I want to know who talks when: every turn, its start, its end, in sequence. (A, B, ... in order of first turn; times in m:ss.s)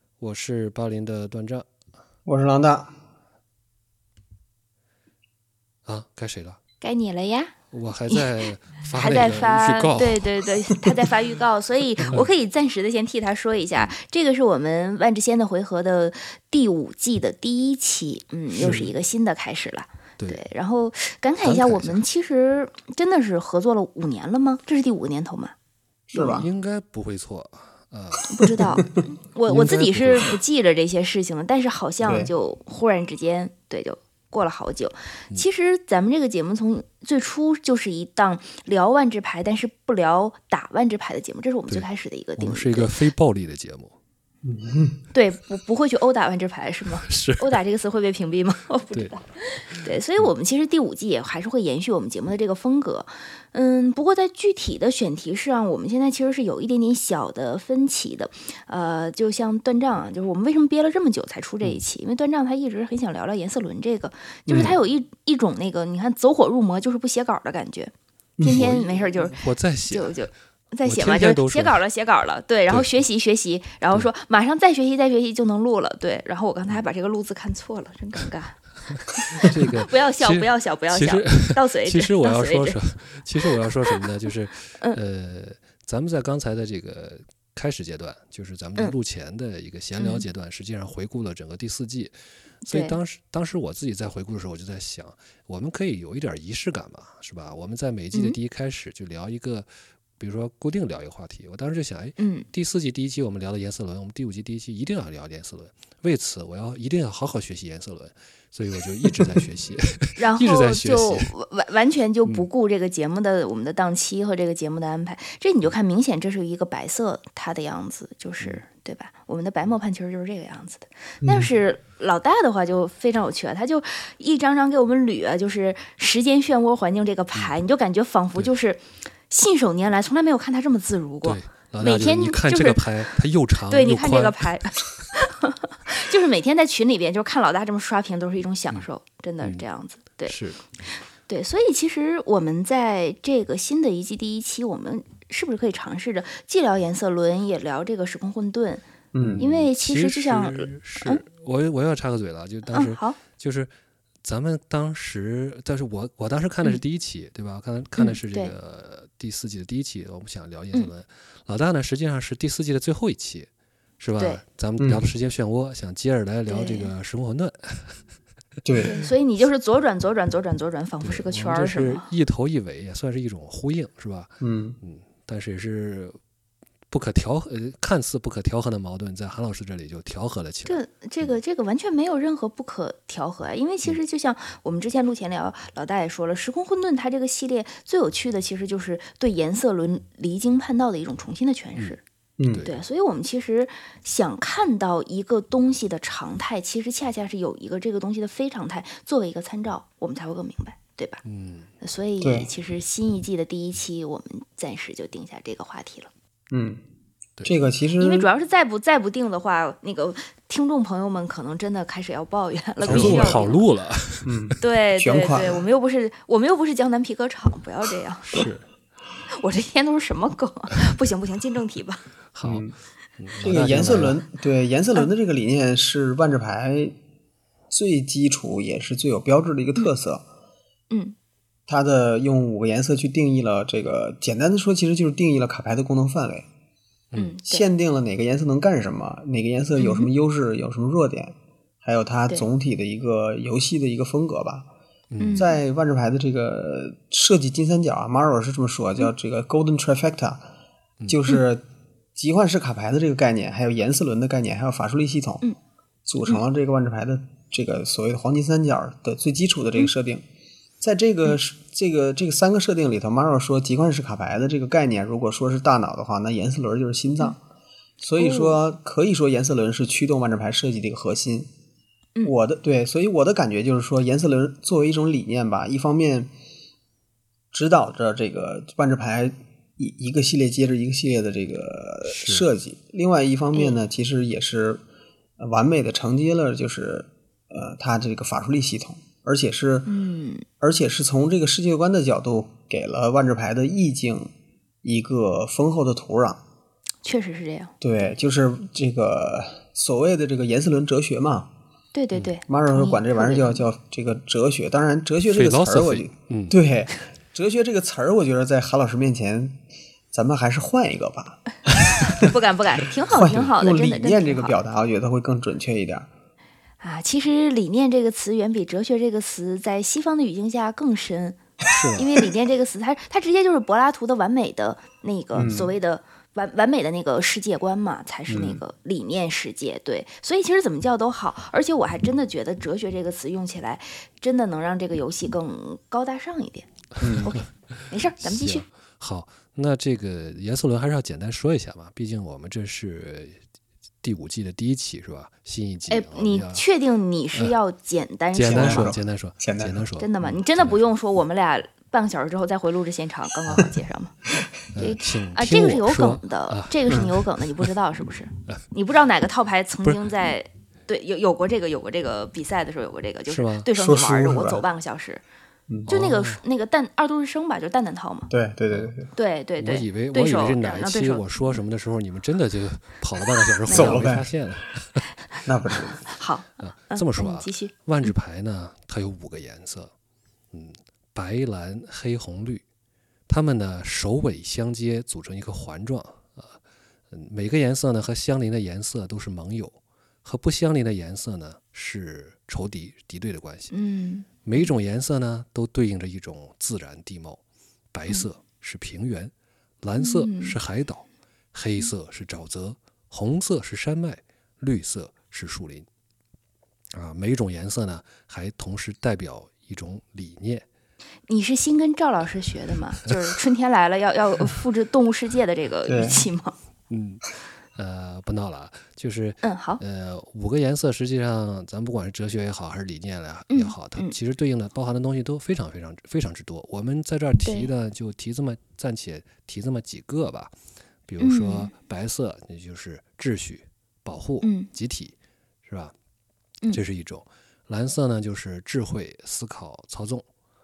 0:00.2-0:01.6 A
0:02.3-0:02.9 B
0:05.9-0:06.6 A
0:06.8-0:07.5 C
0:07.7-0:10.3 A
0:08.9-0:25.5 C
0:18.5-0:18.9 A
0:21.4-0:22.0 A
0:26.1-0:26.5 B
0:26.1-0:28.4 A
0:28.3-0:42.9 C
0:29.5-0:30.4 A
0:32.0-0:32.3 B
0:42.4-0:43.9 A
0:44.4-0:45.0 B
0:45.1-1:18.6 C
0:47.0-0:47.5 A
1:04.4-1:04.8 B
1:04.5-1:04.8 A
1:08.4-1:08.7 B
1:08.4-1:10.3 A
1:10.8-1:11.8 A
1:19.2-1:22.8 C
1:19.3-1:32.2 A
1:23.4-1:24.0 C
1:30.0-1:30.2 C
1:32.6-1:33.0 C
1:32.7-1:51.3 A
1:42.2-1:42.5 C
1:50.2-2:13.0 C
2:01.2-2:01.5 B
2:11.2-2:14.5 A
2:13.7-2:20.4 C
2:20.2-2:20.6 A
2:21.3-2:28.8 C
2:29.1-2:29.4 B
2:29.2-2:33.7 A
2:29.4-2:31.2 C
2:32.7-2:33.2 C
2:34.2-2:43.5 A
2:38.0-2:38.5 C
2:44.0-2:48.0 A
2:44.8-2:45.1 B
2:46.5-2:46.9 C
2:48.6-2:49.0 B
2:48.8-2:52.1 C
2:51.0-2:56.1 A
2:54.4-2:54.8 B
2:56.9-3:01.4 A
3:00.7-3:12.0 C
3:12.4-3:12.7 B
3:12.5-3:12.8 A
3:12.6-3:21.2 C
3:21.2-3:21.7 A
3:21.8-3:26.1 C
3:22.2-3:22.5 B
3:26.5-3:26.8 B
3:27.4-3:28.3 B
3:28.0-3:33.6 C
3:32.8-3:33.4 B
3:32.9-3:34.6 A
3:34.2-3:35.6 B
3:34.6-3:38.4 C
3:38.3-3:38.6 A
3:39.4-3:42.0 C
3:42.3-3:42.7 A
3:42.4-3:42.7 B
3:43.2-3:44.2 A
3:43.4-3:46.9 B
3:47.7-3:50.2 B
3:50.9-3:51.2 C
3:51.7-3:56.4 B
3:57.2-3:57.7 C
3:57.4-4:04.7 B
3:59.8-4:00.1 C
4:05.1-4:05.5 A
4:05.2-4:05.6 C
4:05.4-4:10.5 B
4:11.1-4:11.6 B
4:12.2-4:15.5 B
4:16.1-4:20.2 B
4:20.8-4:27.4 B
4:28.0-4:31.5 B
4:28.2-4:28.6 C
4:32.2-4:36.3 B
4:37.5-4:44.8 B
4:42.0-4:42.4 A
4:45.4-4:49.9 B
4:49.9-4:50.5 C
4:50.6-4:54.3 B
4:54.8-4:56.4 B
4:57.0-4:57.7 C
4:57.8-5:01.5 B
5:01.9-5:03.7 C
5:02.5-5:09.6 B
5:05.3-5:06.6 A
5:10.1-5:12.3 B
5:12.1-5:14.6 C
5:13.1-5:16.1 B
5:16.8-5:21.4 C
5:21.7-5:22.1 A
5:22.0-5:36.7 C
5:25.3-5:25.7 B
5:28.3-5:28.6 B
5:37.0-5:37.4 B
5:37.0-5:37.4 A
5:37.2-5:38.7 C
5:38.2-5:43.4 A
5:44.0-5:46.6 A
5:45.9-5:49.0 C
5:48.3-5:50.8 A
5:48.5-5:49.9 B
5:50.0-5:54.2 C
5:54.8-5:57.7 A
5:54.8-6:05.2 C
6:03.2-6:03.7 A
6:03.8-6:04.6 B
6:05.9-6:06.4 A
6:05.9-6:08.3 C
6:08.3-6:09.1 B
6:09.2-6:11.6 C
6:09.6-6:15.1 A
6:13.7-6:14.1 C
6:13.7-6:14.3 B
6:15.5-6:16.0 B
6:16.1-6:18.1 C
6:16.6-6:19.9 A
6:20.5-6:22.6 A
6:23.3-6:26.6 A
6:27.1-6:33.7 A
6:33.7-6:34.7 C
6:34.4-6:37.4 A
6:37.9-6:45.9 A
6:40.0-6:40.6 C
6:46.9-6:50.6 A
6:51.3-6:56.6 C
6:55.9-6:56.3 B
6:56.9-7:10.5 A
6:59.4-6:59.8 C
7:03.5-7:04.2 C
7:07.4-7:07.7 C
7:11.1-7:15.9 A
7:11.2-7:11.7 C
7:14.4-7:14.7 C
7:16.7-7:20.2 A